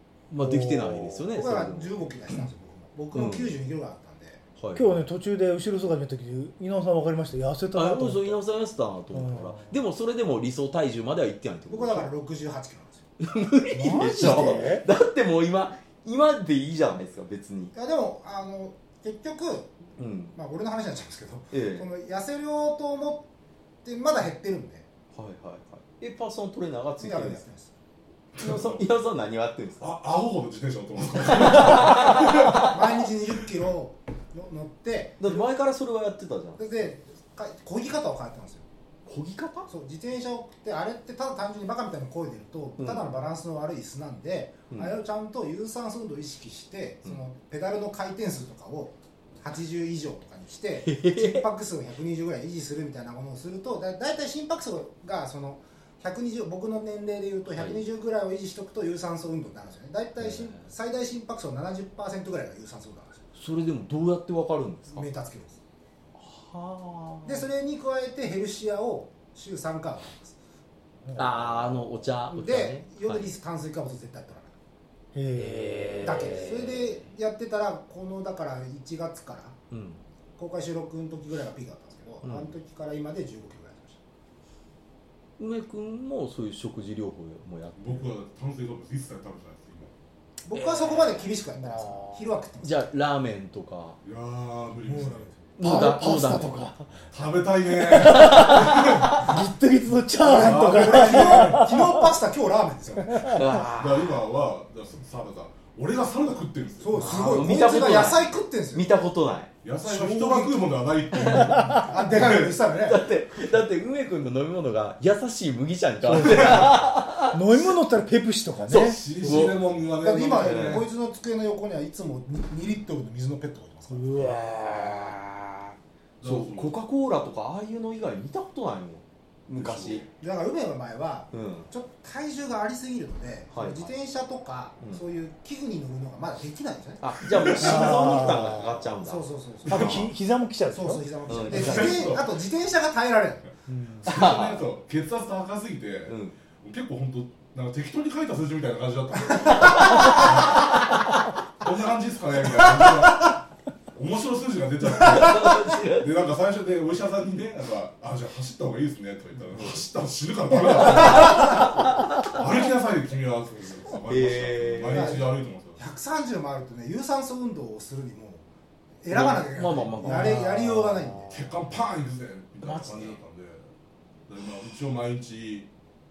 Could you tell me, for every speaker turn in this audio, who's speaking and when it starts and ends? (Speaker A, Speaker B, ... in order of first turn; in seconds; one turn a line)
Speaker A: 0.3-2.1
Speaker B: 0.4-1.3
Speaker C: 1.3-4.4
Speaker A: 3.1-3.6
Speaker A: 4.6-5.0
Speaker B: 4.8-8.4
Speaker A: 7.7-12.1
Speaker B: 9.1-9.8
Speaker C: 11.7-13.0
Speaker A: 13.2-17.7
Speaker B: 13.7-14.9
Speaker C: 17.7-19.8
Speaker A: 20.0-20.4
Speaker C: 20.3-23.3
Speaker A: 21.5-21.9
Speaker C: 23.8-24.9
Speaker A: 25.1-27.4
Speaker C: 27.0-27.7
Speaker D: 28.3-28.9
Speaker A: 28.4-29.9
Speaker D: 29.8-32.9
Speaker A: 31.3-32.8
Speaker C: 32.4-35.4
Speaker A: 35.2-36.6
Speaker C: 36.6-38.6
Speaker A: 39.1-39.7
Speaker C: 39.7-63.2
Speaker A: 42.8-43.2
Speaker A: 44.7-45.0
Speaker A: 50.8-51.5
Speaker A: 57.5-57.8
Speaker A: 60.2-60.7
Speaker A: 63.4-65.1
Speaker C: 64.9-65.6
Speaker A: 66.2-67.5
Speaker C: 67.2-70.4
Speaker B: 71.1-71.7
Speaker A: 71.1-73.3
Speaker C: 72.3-74.5
Speaker B: 75.1-76.5
Speaker A: 75.3-77.0
Speaker C: 76.0-79.6
Speaker A: 79.7-80.0
Speaker C: 80.4-84.0
Speaker A: 82.2-82.5
Speaker A: 85.4-88.1
Speaker D: 87.8-89.9
Speaker C: 90.5-92.9
Speaker A: 90.5-91.3
Speaker B: 91.6-92.2
Speaker A: 92.6-94.0
Speaker D: 94.0-95.3
Speaker C: 94.8-95.4
Speaker A: 95.6-96.7
Speaker B: 95.6-96.8
Speaker D: 97.1-99.4
Speaker B: 97.9-102.1
Speaker A: 97.9-99.2
Speaker C: 100.2-103.5
Speaker D: 100.2-101.9
Speaker B: 103.0-103.5
Speaker A: 103.3-104.2
Speaker D: 103.5-107.5
Speaker C: 106.8-108.9
Speaker A: 106.9-109.5
Speaker D: 109.6-112.6
Speaker C: 109.8-110.8
Speaker A: 111.1-111.5
Speaker B: 111.3-112.0
Speaker C: 111.8-113.1
Speaker A: 112.8-117.4
Speaker B: 116.0-119.0
Speaker D: 116.2-116.7
Speaker D: 118.6-120.9
Speaker C: 119.2-124.3
Speaker A: 119.2-119.6
Speaker A: 120.4-120.8
Speaker B: 123.9-124.6
Speaker A: 124.2-130.1
Speaker D: 126.2-126.8
Speaker D: 129.6-130.1
Speaker C: 130.2-138.4
Speaker A: 131.3-131.7
Speaker A: 133.5-133.9
Speaker A: 137.0-140.0
Speaker D: 137.4-138.0
Speaker B: 137.6-138.8
Speaker C: 139.0-140.1
Speaker B: 139.7-141.0
Speaker D: 139.7-140.0
Speaker C: 140.7-143.5
Speaker A: 141.3-142.2
Speaker D: 141.4-142.4
Speaker B: 143.7-144.1
Speaker D: 144.0-150.8
Speaker A: 144.0-144.7
Speaker A: 146.1-146.4
Speaker A: 149.5-150.8
Speaker D: 151.6-153.4
Speaker D: 153.9-165.8
Speaker A: 154.9-156.1
Speaker A: 159.5-159.8
Speaker A: 160.8-162.3
Speaker A: 164.1-165.2
Speaker C: 164.9-168.4
Speaker C: 169.0-171.4
Speaker A: 169.1-171.1
Speaker B: 170.0-171.4
Speaker D: 171.3-173.7
Speaker A: 172.6-173.2
Speaker D: 174.3-175.7